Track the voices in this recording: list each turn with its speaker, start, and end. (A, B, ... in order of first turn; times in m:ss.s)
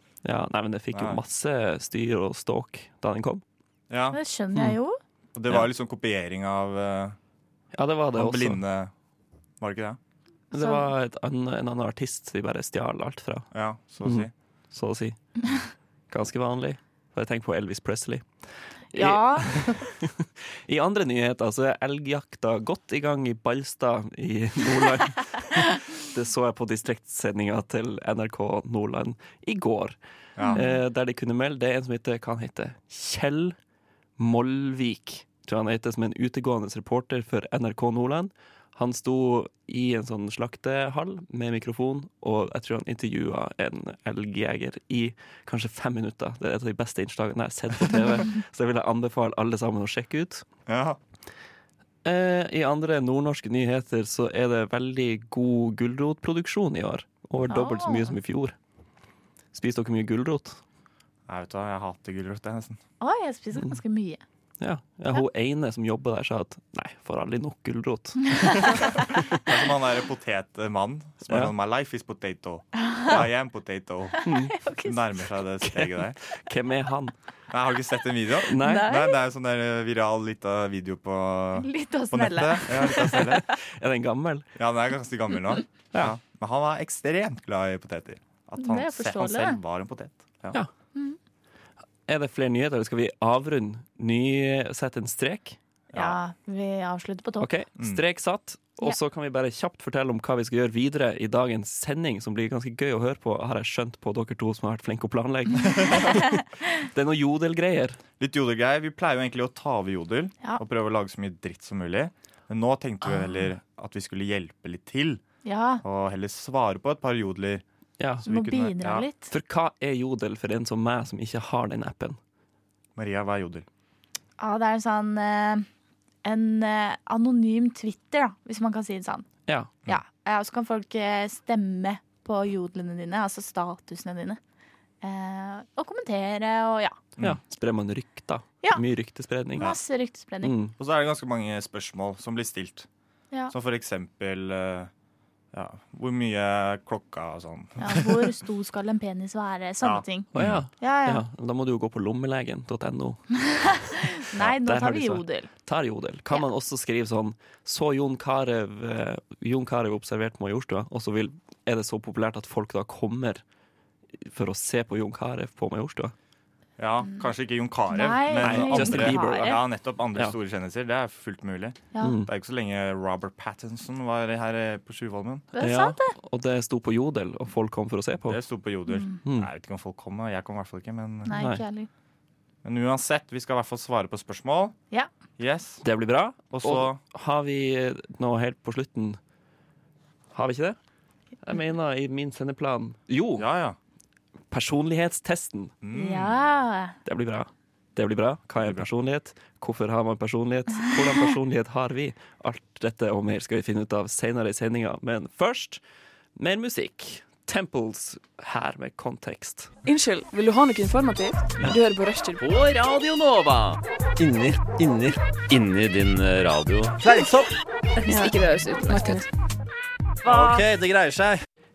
0:00.2-0:03.4 A
0:00.9-0:01.2 B
0:03.9-0:04.2 B
0:04.1-0:05.0 C
0:05.4-0:07.2 B
0:07.7-0:08.6 A
0:08.1-0:08.9 B
0:09.6-0:10.0 B
0:10.5-0:10.9 C
0:10.5-0:13.5 A
0:13.5-0:14.3 B
0:14.0-0:15.2 A
0:16.1-0:18.3 A
0:18.9-0:30.0 A
0:18.9-0:19.9 C
0:30.4-0:30.7 B
0:30.4-0:30.8 C
0:30.5-0:33.6 A
0:34.2-0:50.4 A
0:50.7-0:51.0 B
0:52.0-0:58.6 A
0:57.5-0:58.2 C
0:59.5-1:00.6 A
1:01.3-1:02.8 B
1:03.0-1:04.2 C
1:04.6-1:08.9 A
1:08.3-1:08.8 C
1:08.7-1:14.2 B
1:11.3-1:11.5 A
1:12.8-1:13.1 C
1:14.2-1:15.0 C
1:14.2-1:14.6 A
1:14.8-1:16.2 B
1:15.6-1:17.2 A
1:17.5-1:23.4 B
1:18.5-1:18.9 A
1:18.6-1:19.2 C
1:21.6-1:23.5 C
1:23.1-1:24.5 A
1:24.6-1:30.6 B
1:28.6-1:29.6 C
1:32.1-1:35.6 A
1:35.9-1:36.2 B
1:35.9-1:37.5 C
1:37.4-1:48.0 A
1:45.8-1:46.1 B
1:46.0-1:46.3 C
1:48.2-1:55.2 B
1:55.4-1:55.8 C
1:55.8-1:57.6 B
1:58.0-1:58.2 A
1:58.2-1:59.0 B
1:58.2-1:59.3 C
1:59.3-2:02.2 A
2:03.0-2:03.7 B
2:04.4-2:05.7 C
2:06.2-2:09.3 C
2:09.5-2:09.8 A
2:09.9-2:14.4 C
2:15.0-2:17.0 C
2:17.2-2:19.7 A
2:19.6-2:20.6 C
2:20.4-2:20.7 A
2:20.8-2:22.9 B
2:23.5-2:24.9 B
2:25.5-2:28.4 B
2:27.8-2:31.2 C
2:29.8-2:30.6 B
2:30.3-2:33.8 A
2:33.4-2:35.5 C
2:34.4-2:43.4 A
2:44.2-2:46.1 A
2:46.8-2:55.5 B
2:47.9-2:49.6 C
2:48.4-2:49.6 A
2:52.0-2:52.3 A
2:55.5-2:56.2 C
2:55.6-2:58.4 A
2:58.2-3:01.4 B
2:58.9-2:59.2 C
2:59.2-2:59.5 A
3:01.3-3:01.9 C
3:01.4-3:01.6 A
3:02.6-3:04.8 B
3:05.4-3:05.8 B
3:05.8-3:09.2 A
3:06.5-3:07.0 B
3:10.3-3:10.8 A
3:11.4-3:13.5 A
3:13.4-3:13.8 B
3:14.5-3:15.8 A
3:15.8-3:16.4 B
3:15.9-3:17.0 C
3:17.0-3:25.8 A
3:18.6-3:18.9 B
3:26.4-3:29.7 A
3:29.8-3:32.5 D
3:32.4-3:37.5 E
3:38.1-3:39.3 D
3:40.2-3:41.4 E